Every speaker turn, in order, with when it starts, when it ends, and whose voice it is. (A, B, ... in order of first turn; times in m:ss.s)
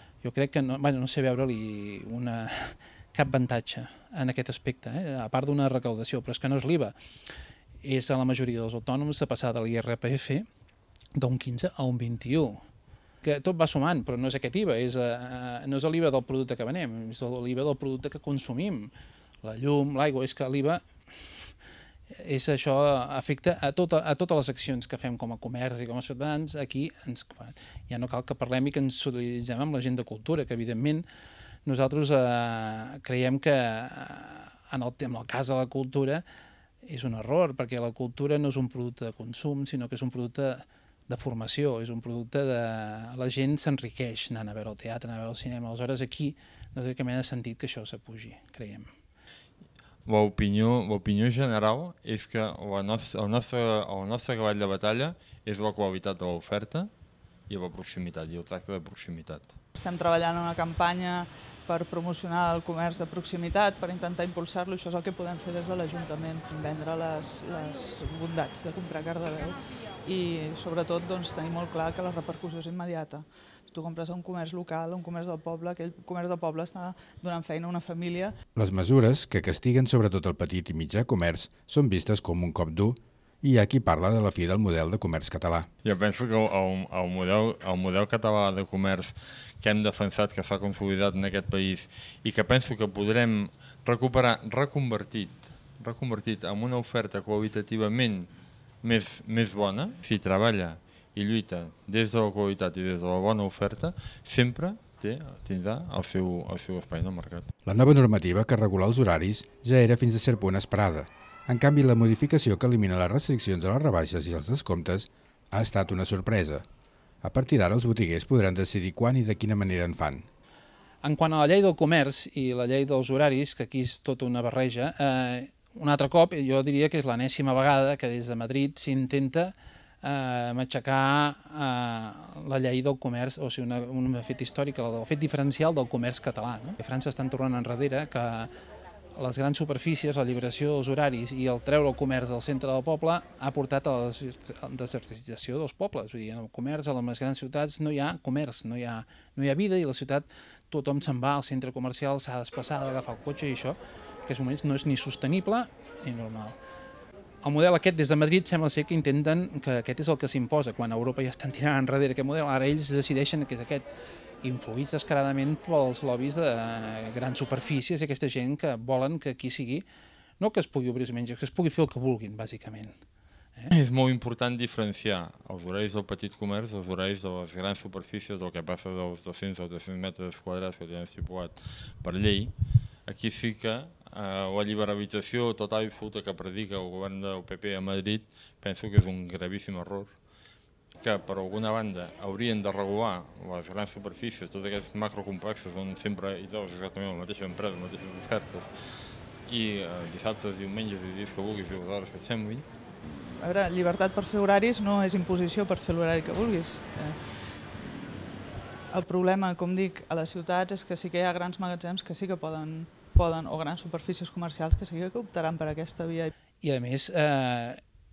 0:00.2-0:06.9 A
0:07.8-0:10.4 A
0:11.2-0:12.6 A
0:13.2-0:18.9 A
0:19.4-0:20.8 A
0:22.1-0:31.0 A
0:31.6-0:36.2 A
0:36.8-0:48.9 A
0:50.0-0:56.9 B
0:57.5-0:59.5 B
0:59.7-1:18.3 C
1:18.6-1:25.7 D
1:25.8-1:38.3 B
1:38.8-1:47.5 B
1:47.6-1:56.6 D
1:57.2-2:00.3 D
2:01.0-2:18.5 A
2:19.2-2:36.6 A
2:37.4-2:43.9 A
2:44.4-2:49.8 A
2:50.4-2:53.0 A
2:53.7-3:02.5 B
3:03.1-3:10.2 B
3:11.0-3:18.7 B
3:19.4-3:22.6 B
3:23.4-3:36.3 C
3:36.6-3:37.8 A